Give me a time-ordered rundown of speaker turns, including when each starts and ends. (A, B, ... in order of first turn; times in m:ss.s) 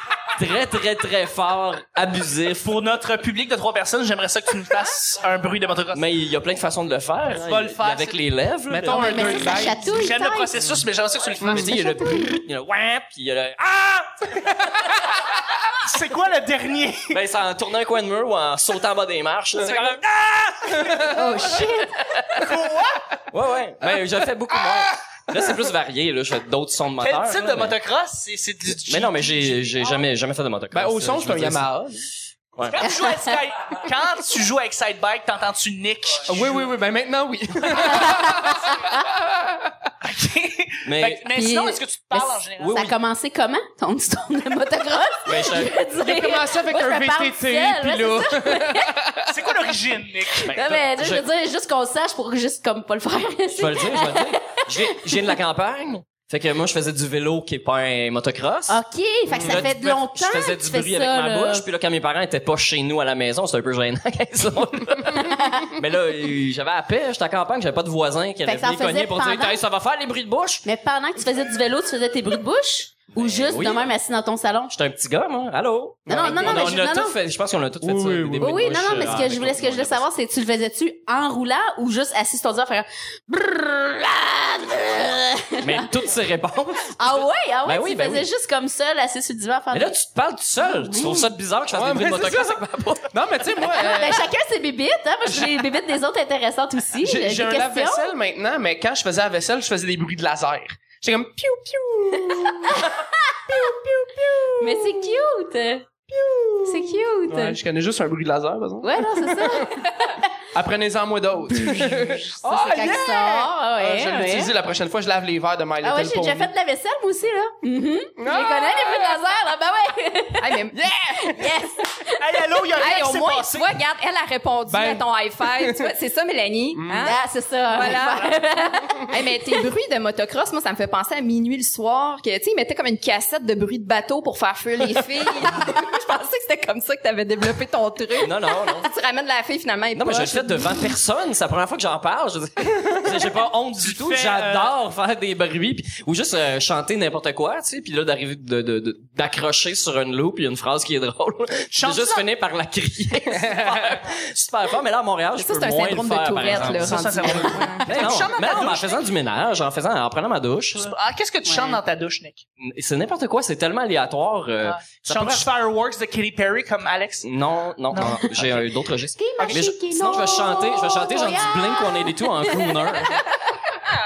0:00.3-0:02.7 A
0:02.6-0:06.0 B
0:05.9-0:09.6 A
0:07.3-0:08.2 B
0:08.7-0:10.0 C
0:08.9-0:10.5 D
0:09.7-0:11.8 B
0:11.4-0:12.1 C
0:11.4-0:15.0 A
0:15.8-0:17.2 B
0:17.1-0:21.6 A
0:20.8-0:21.6 C
0:21.2-0:22.0 D
0:22.4-0:23.1 B
0:23.3-0:27.8 A
0:27.0-0:30.1 B
0:28.9-0:31.7 A
0:30.7-0:32.1 C
0:32.6-0:32.8 A
0:32.6-0:36.6 B
0:32.9-0:33.3 D
0:36.3-0:39.9 C
0:37.8-0:39.0 D
0:40.0-0:42.8 B
0:40.8-0:41.2 A
0:41.3-0:48.9 D
0:42.6-0:42.9 A
0:45.3-0:45.7 A
0:46.0-0:49.5 C
0:49.3-0:50.8 B
0:50.4-0:55.3 D
0:50.7-0:51.2 A
0:53.6-0:58.8 A
0:58.7-1:01.6 D
0:59.3-1:10.6 A
0:59.3-0:59.7 C
1:05.2-1:05.7 D
1:08.4-1:09.6 D
1:10.6-1:14.7 D
1:13.2-1:13.9 A
1:14.7-1:20.0 A
1:16.1-1:16.8 C
1:16.1-1:17.2 D
1:17.8-1:19.3 C
1:18.4-1:25.9 D
1:25.6-1:28.3 A
1:27.0-1:30.0 D
1:29.7-1:33.1 A
1:30.6-1:31.3 D
1:31.7-1:34.3 C
1:33.6-1:38.1 D
1:37.0-1:45.1 C
1:42.2-1:43.6 D
1:44.6-1:45.9 D
1:46.1-1:49.7 C
1:46.7-1:47.6 D
1:48.8-1:50.3 D
1:50.5-1:56.5 C
1:51.5-1:54.5 D
1:55.8-2:02.2 D
1:58.2-1:59.2 C
2:00.4-2:00.8 E
2:00.7-2:01.6 C
2:02.2-2:03.8 B
2:02.8-2:08.5 E
2:04.7-2:05.9 C
2:06.8-2:07.2 C
2:07.0-2:09.2 D
2:09.1-2:20.9 E
2:18.2-2:18.9 A
2:19.9-2:40.9 A
2:23.8-2:24.7 B
2:31.7-2:32.3 B
2:33.5-2:33.9 B
2:35.4-2:38.2 E
2:36.5-2:39.1 B
2:40.7-2:42.4 B
2:41.5-2:41.8 D
2:42.6-2:45.5 A
2:44.7-2:47.3 B
2:47.2-2:53.2 A
2:47.9-2:48.7 B
2:49.2-2:53.3 D